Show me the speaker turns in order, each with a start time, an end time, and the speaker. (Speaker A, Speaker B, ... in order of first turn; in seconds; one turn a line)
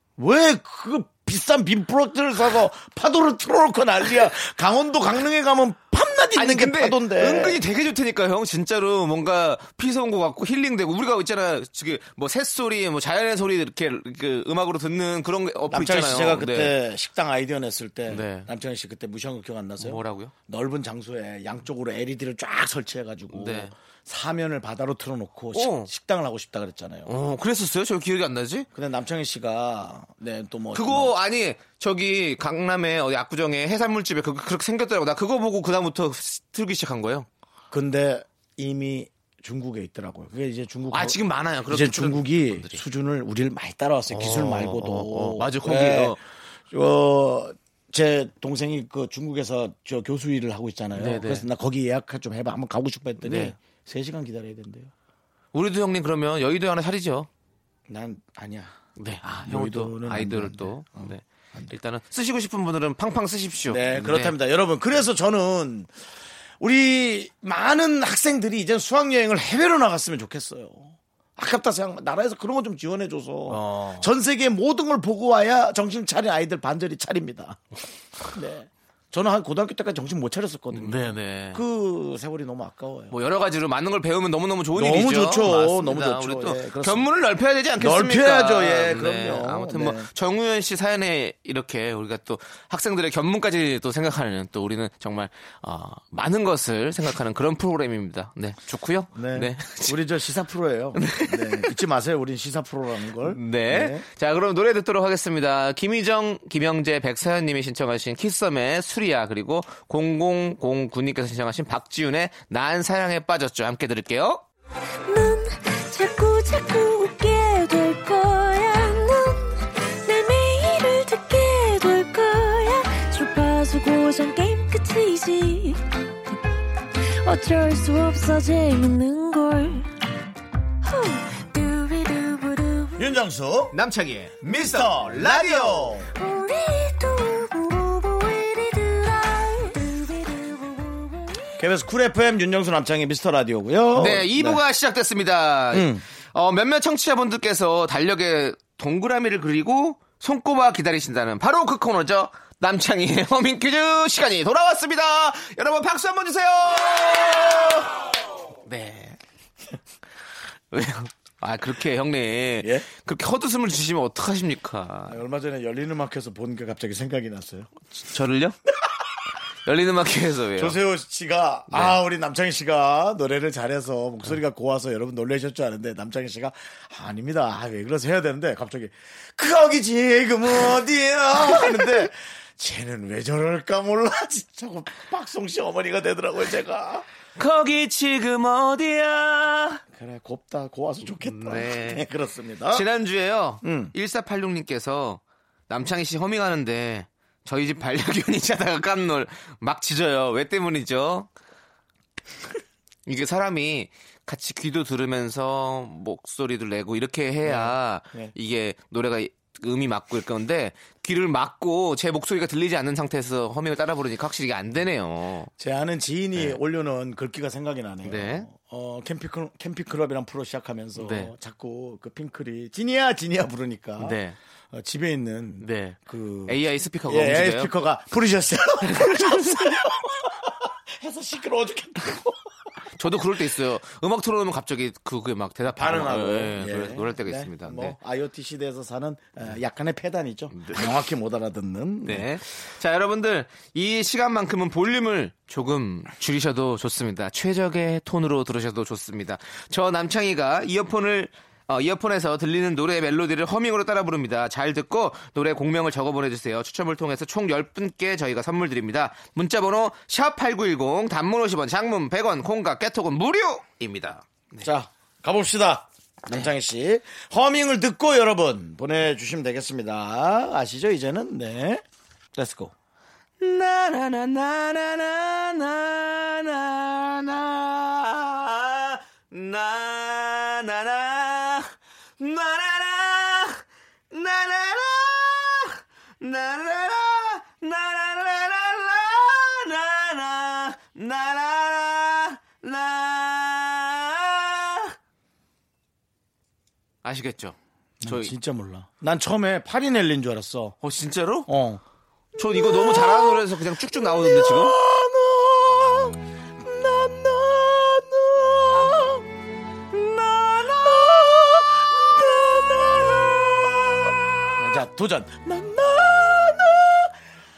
Speaker A: 0.2-7.6
Speaker B: 6.3-16.8
Speaker A: 15.7-27.1
Speaker B: 18.1-18.5
Speaker B: 19.8-20.3
Speaker B: 23.3-23.7
Speaker B: 25.5-25.9
Speaker B: 27.1-28.7
Speaker A: 28.8-31.1
Speaker B: 30.7-37.3
Speaker A: 37.7-54.9
Speaker B: 40.9-42.8
Speaker B: 44.1-46.2
Speaker B: 51.0-51.5
Speaker B: 53.2-53.6
Speaker B: 55.5-57.3
Speaker A: 57.9-61.7
Speaker B: 59.0-64.3
Speaker A: 63.7-65.9
Speaker A: 66.6-77.6
Speaker B: 73.5-74.1
Speaker A: 78.3-83.2
Speaker B: 80.7-81.6
Speaker B: 83.1-100.0
Speaker A: 84.7-87.1
Speaker A: 87.8-90.1
Speaker A: 99.2-104.0
Speaker B: 101.0-101.8
Speaker B: 103.2-114.4
Speaker C: 115.1-126.4
Speaker C: 127.0-129.9
Speaker C: 130.8-133.1
Speaker A: 133.0-133.8
Speaker B: 133.7-136.0
Speaker A: 134.4-136.1
Speaker C: 136.2-141.5
Speaker A: 141.6-144.6
Speaker B: 143.9-157.9
Speaker A: 145.7-146.0
Speaker B: 158.6-159.2
Speaker B: 160.7-165.2
Speaker A: 162.6-162.9
Speaker A: 165.1-167.7
Speaker B: 167.9-168.6
Speaker B: 169.7-170.8
Speaker A: 170.6-187.1
Speaker B: 171.7-172.0
Speaker B: 181.5-182.0
Speaker B: 187.4-189.8
Speaker A: 189.9-192.8
Speaker B: 191.2-192.0
Speaker B: 192.7-201.3
Speaker A: 193.6-193.9
Speaker B: 203.1-215.5
Speaker A: 207.4-208.3
Speaker A: 215.6-224.2
Speaker B: 218.1-218.5
Speaker B: 221.0-221.3
Speaker B: 224.0-224.4
Speaker A: 224.7-232.4
Speaker B: 225.6-227.7
Speaker B: 228.9-229.7
Speaker B: 232.9-238.0
Speaker A: 235.7-242.3
Speaker B: 240.5-240.9
Speaker B: 242.1-264.7
Speaker A: 264.6-271.8
Speaker A: 272.3-272.7
Speaker B: 273.4-294.9
Speaker B: 297.0-298.3
Speaker A: 298.0-300.8
Speaker B: 300.8-301.5
Speaker A: 301.5-301.8
Speaker B: 302.4-304.8
Speaker A: 302.4-309.3
Speaker B: 309.9-310.9
Speaker A: 310.6-317.2